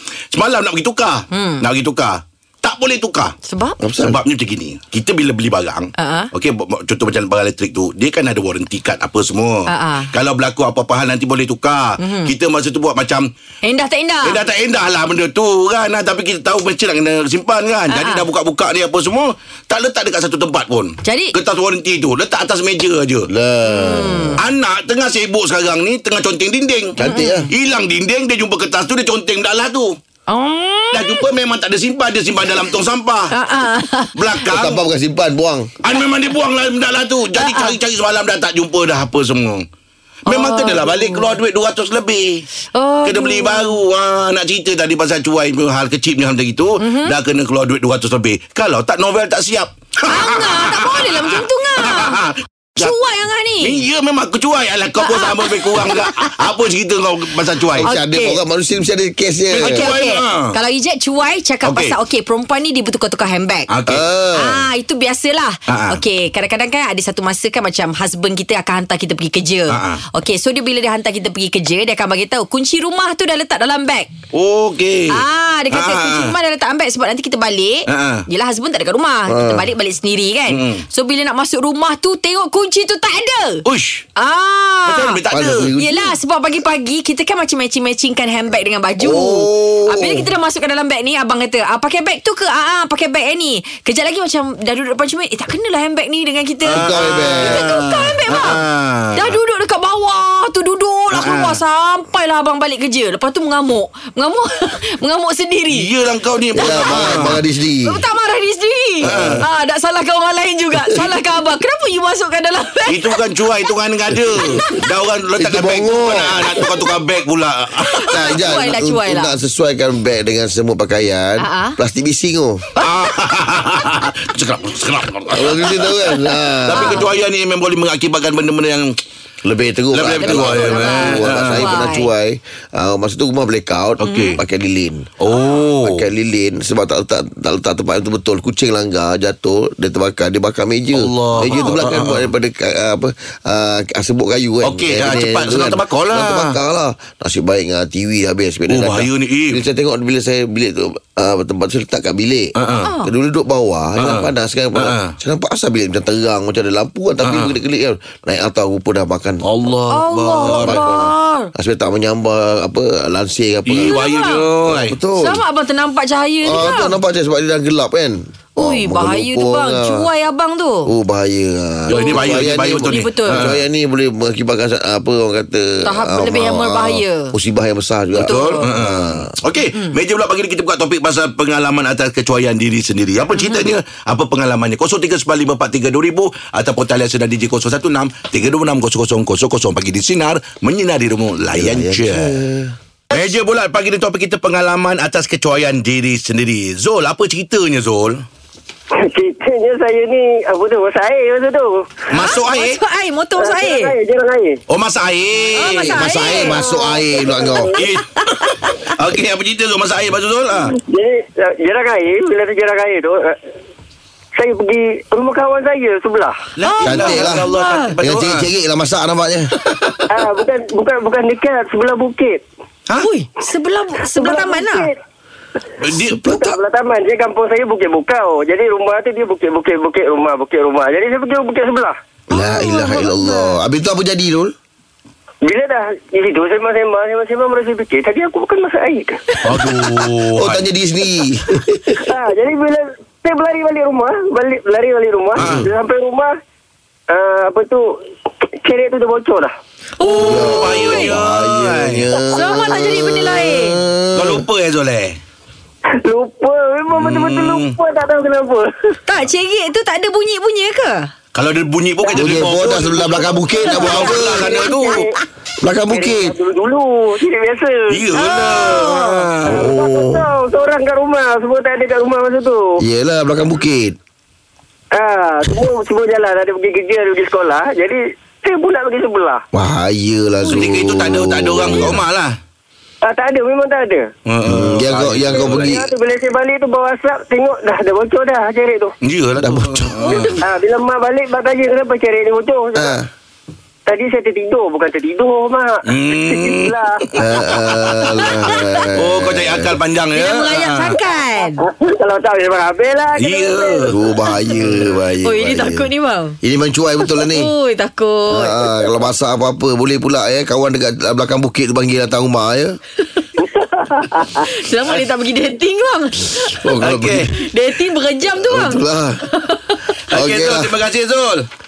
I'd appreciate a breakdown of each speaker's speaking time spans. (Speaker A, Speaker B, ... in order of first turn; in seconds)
Speaker A: 0.3-3.3, 4.0-13.3, 14.2-23.3, 24.4-27.0, 27.5-30.0, 30.9-33.3, 34.1-34.8, 35.8-39.7, 40.2-42.5, 43.0-53.0, 53.6-57.9, 59.5-60.5, 61.6-62.0, 63.7-64.1, 65.7-66.0, 69.7-70.0, 74.3-76.3, 77.9-78.2, 80.5-80.8, 83.6-84.1, 84.9-85.7, 96.7-99.4, 101.1-101.6, 105.7-107.4, 109.0-109.5, 112.9-118.3, 122.8-128.9, 129.9-131.8, 134.0-134.4, 135.2-136.1, 140.9-142.3, 144.6-146.6, 148.7-149.6, 152.5-152.9, 154.0-155.2, 157.2-157.6, 159.4-160.9, 163.7-165.0, 171.9-173.6, 178.2-192.4, 193.1-198.2, 202.1-202.8, 204.7-206.5, 207.8-210.8, 216.6-218.5, 219.7-220.0, 225.8-226.6, 239.4-240.7, 245.4-245.7, 250.0-252.1, 254.1-255.2, 256.9-257.8, 261.3-265.0, 267.9-269.6, 280.4-282.4, 284.2-285.8, 289.0-290.4, 295.9-297.1, 297.7-298.3, 298.9-301.0, 303.1-303.9, 316.8-317.3, 320.1-321.5
Speaker B: 1.3-1.6, 3.5-3.8, 6.0-6.3, 9.7-10.1, 12.0-12.3, 13.6-14.4, 17.9-18.3, 21.0-21.3, 23.6-24.4, 27.0-27.5, 30.3-31.2, 33.3-34.2, 37.3-37.8, 40.3-41.4, 42.7-43.8, 46.8-47.2, 50.1-52.2, 52.8-53.8, 55.0-56.3, 57.8-58.4, 59.6-63.7, 64.4-74.1, 75.1-83.6, 84.2-85.2, 85.8-98.6, 99.2-105.9, 106.5-113.2, 114.2-114.8, 117.9-119.3, 121.4-121.8, 126.7-127.1, 130.2-132.1, 134.0-134.4, 152.8-153.1, 159.9-161.5, 163.8-164.5, 165.2-167.0, 168.6-170.9, 171.9-173.4, 175.8-177.3, 178.2-178.7, 183.3-183.7, 202.2-204.0, 205.6-206.6, 216.6-217.9, 223.0-224.9, 250.0-251.1, 252.3-253.8, 259.1-261.1, 290.0-290.4, 300.1-301.6, 305.2-306.4, 307.0-308.8, 314.4-316.6, 317.3-319.8
Speaker C: 3.8-4.2, 23.3-24.4, 27.0-27.5, 34.5-35.7, 57.8-59.9, 63.9-64.7, 79.3-79.6, 85.3-86.1, 89.0-90.3, 96.7-97.8, 106.6-108.0, 109.0-109.4, 115.4-116.7, 118.1-122.7, 125.3-127.1, 129.4-135.1, 135.8-159.4, 160.4-164.0, 164.7-165.4, 166.4-170.1, 170.8-179.3, 191.5-192.7, 205.8-207.8, 216.8-217.5, 218.0-219.5, 232.3-234.5, 240.3-242.0, 245.4-245.7, 250.2-254.4, 262.1-264.6, 265.6-266.4, 269.4-270.3, 272.8-273.9, 279.5-282.0, 284.5-285.9, 289.4-290.1, 292.8-293.1, 297.2-299.8, 303.9-305.9, 306.4-307.5, 308.3-312.8, 316.5-317.3, 318.3-319.3, 320.1-320.8
Speaker D: 199.0-202.0, 203.4-204.6, 206.5-207.8, 210.7-213.3, 214.3-216.3, 220.1-222.4, 224.1-224.9, 226.1-231.9, 235.4-239.4, 242.0-246.3, 247.1-247.8, 248.6-249.5, 256.0-259.0, 263.7-265.1, 265.9-272.6, 274.9-279.4, 283.0-284.1, 285.3-288.9, 290.4-293.0, 293.9-297.0, 301.6-304.1, 313.4-314.4